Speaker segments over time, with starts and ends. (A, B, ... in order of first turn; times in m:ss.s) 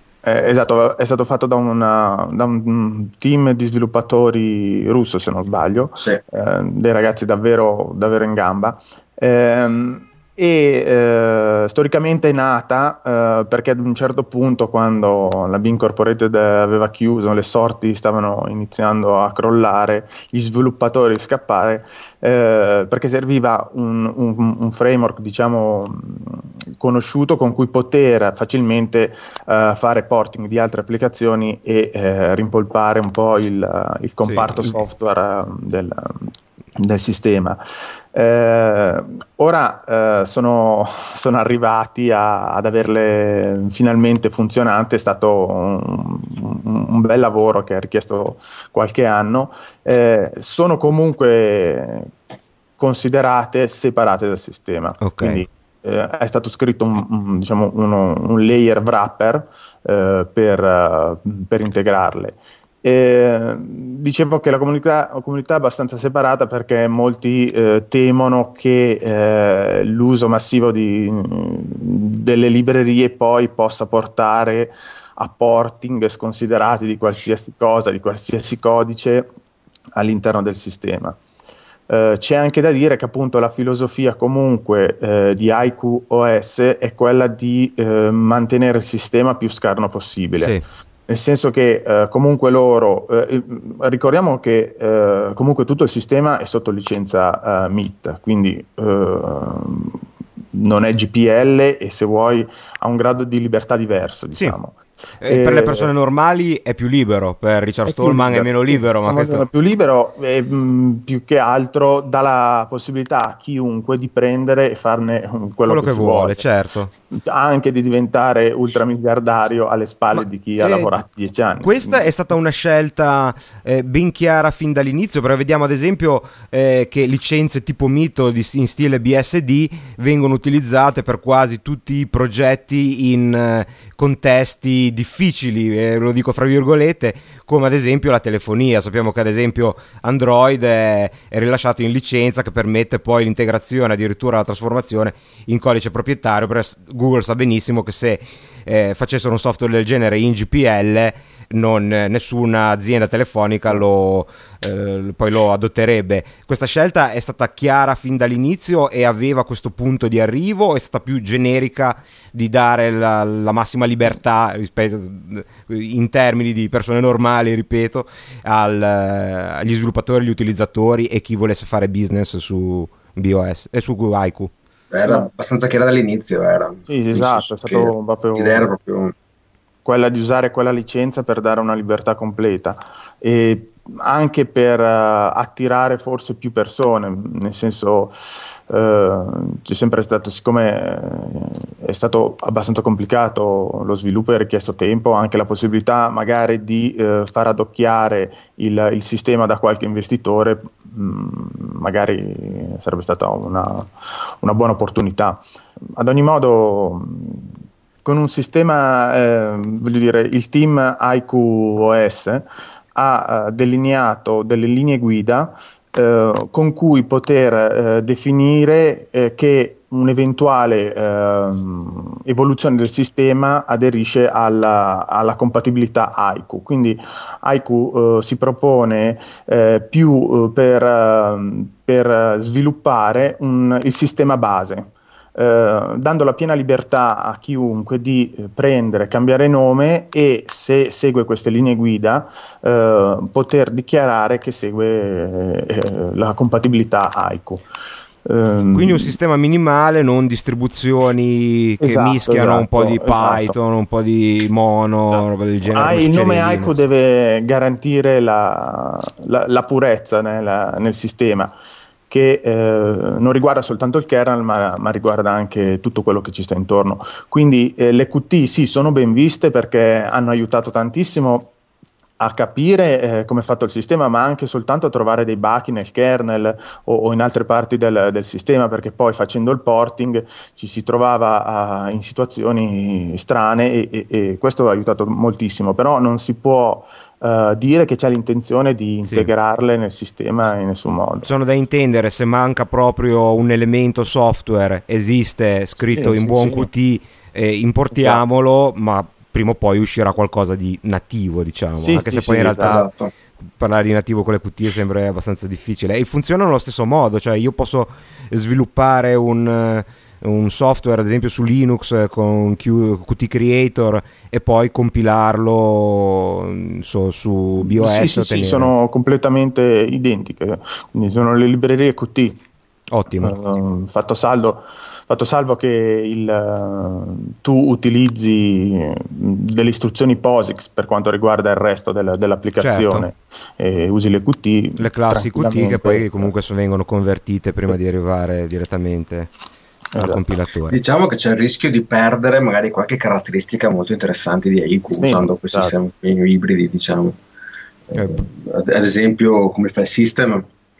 0:00.2-0:37.6 A
0:34.2-0:34.8 B
0:38.1-0:52.1 A
0:52.8-1:19.3 A
0:55.0-0:55.4 B
1:20.0-1:21.2 A
1:21.9-1:30.6 A
1:31.1-1:40.0 A
1:40.5-1:45.9 A
1:45.2-1:49.5 B
1:47.9-1:56.4 A
1:55.7-1:56.9 B
1:57.1-2:02.1 A
2:00.1-2:01.0 B
2:01.6-2:54.5 B
2:54.9-2:59.1 C
2:56.9-2:58.7 A
2:59.8-3:27.5 A
3:28.0-4:07.6 A
4:08.2-4:09.2 A
4:08.7-4:16.7 B
4:11.8-4:13.6 A
4:15.7-4:21.5 A
4:22.1-4:31.5 A
4:32.2-4:51.3 A
4:49.0-4:49.3 B
4:51.2-5:02.8 B
4:55.8-4:56.7 A
4:57.9-4:58.2 A
5:01.8-5:02.8 A
5:02.4-5:03.1 C
5:03.6-5:18.7 B
5:17.6-5:22.4 A
5:22.9-5:23.4 B
5:23.2-5:36.3 A
5:32.6-5:33.1 B
5:34.8-5:39.3 B
5:39.9-5:40.2 A
5:40.0-5:40.8 B
5:40.7-5:47.2 C
5:44.9-5:45.7 A
5:47.9-5:50.4 C
5:47.9-5:48.2 B